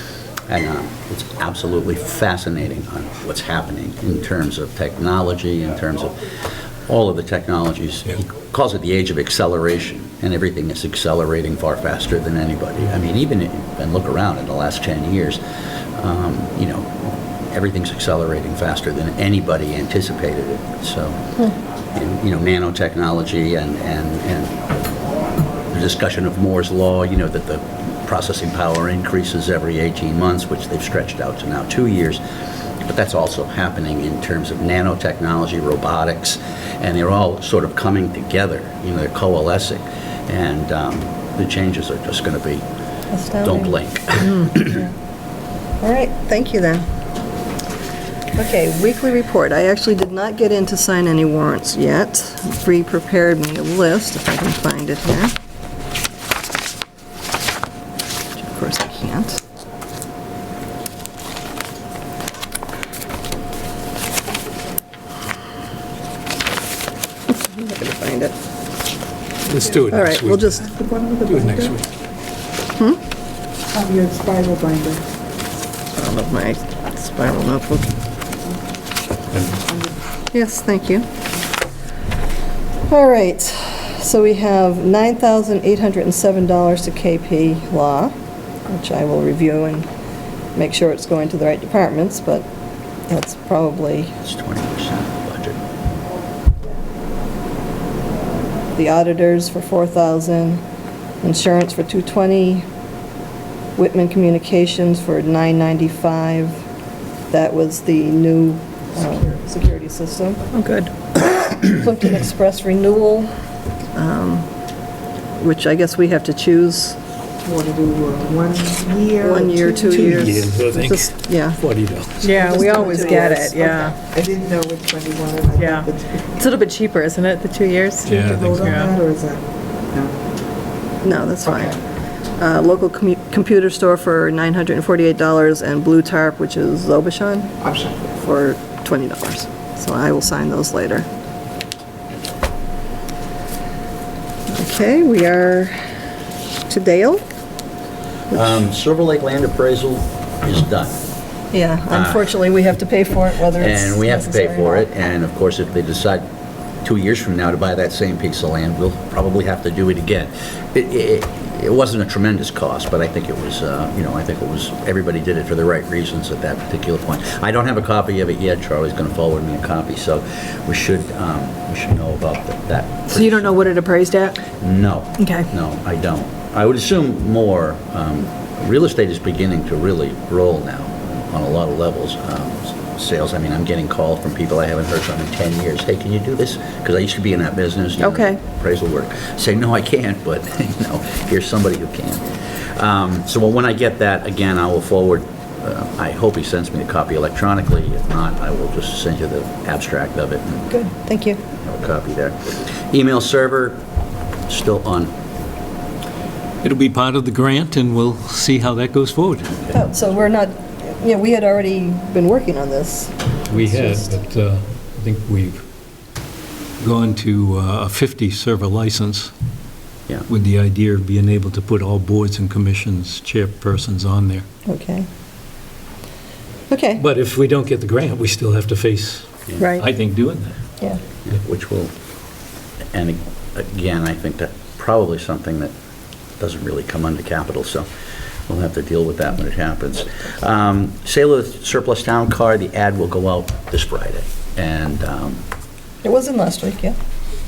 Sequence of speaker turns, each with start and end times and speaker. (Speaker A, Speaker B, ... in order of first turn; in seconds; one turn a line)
Speaker A: 0.5-6.2
Speaker A: 6.9-15.4
Speaker A: 15.9-21.2
Speaker A: 21.9-24.5
Speaker A: 25.7-32.2
Speaker A: 32.8-42.6
Speaker B: 43.1-43.8
Speaker A: 43.4-44.8
Speaker B: 44.3-44.9
Speaker B: 45.8-46.8
Speaker B: 48.3-55.3
Speaker B: 58.4-59.4
Speaker B: 67.3-68.3
Speaker C: 69.5-70.6
Speaker B: 69.9-70.7
Speaker D: 70.6-71.8
Speaker C: 71.2-71.8
Speaker D: 73.7-75.0
Speaker B: 76.0-78.0
Speaker C: 79.3-79.7
Speaker B: 80.3-81.0
Speaker B: 82.9-88.1
Speaker B: 88.7-89.9
Speaker B: 90.5-92.5
Speaker B: 93.1-94.1
Speaker A: 94.2-95.6
Speaker B: 98.7-100.6
Speaker B: 101.2-102.7
Speaker B: 103.8-106.6
Speaker B: 107.3-110.4
Speaker E: 110.5-110.9
Speaker B: 111.6-113.3
Speaker B: 113.9-114.5
Speaker B: 115.4-117.0
Speaker D: 117.4-120.4
Speaker B: 119.2-121.6
Speaker C: 119.9-122.2
Speaker E: 122.2-124.0
Speaker D: 122.2-126.5
Speaker B: 122.3-123.8
Speaker E: 125.5-128.9
Speaker C: 128.0-128.8
Speaker D: 128.1-130.2
Speaker B: 131.0-131.8
Speaker B: 132.4-137.6
Speaker D: 137.6-138.1
Speaker B: 138.2-141.1
Speaker B: 144.5-145.7
Speaker B: 146.7-147.2
Speaker A: 148.3-151.0
Speaker B: 151.5-154.9
Speaker A: 151.9-152.3
Speaker A: 153.5-156.3
Speaker A: 156.8-173.8
Speaker E: 173.1-174.4
Speaker A: 174.5-200.7
Speaker E: 175.2-175.5
Speaker E: 188.0-188.4
Speaker B: 200.7-201.4
Speaker A: 201.5-203.8
Speaker A: 204.5-205.1
Speaker C: 206.6-209.5
Speaker B: 209.7-214.1
Speaker C: 213.5-215.6
Speaker C: 216.8-219.3
Speaker C: 220.3-224.4
Speaker B: 224.7-225.1
Speaker B: 226.7-227.0
Speaker C: 227.0-230.6
Speaker E: 229.6-229.8
Speaker A: 231.2-231.9
Speaker A: 232.9-235.7
Speaker A: 236.4-237.9
Speaker A: 238.5-245.4
Speaker B: 246.0-246.9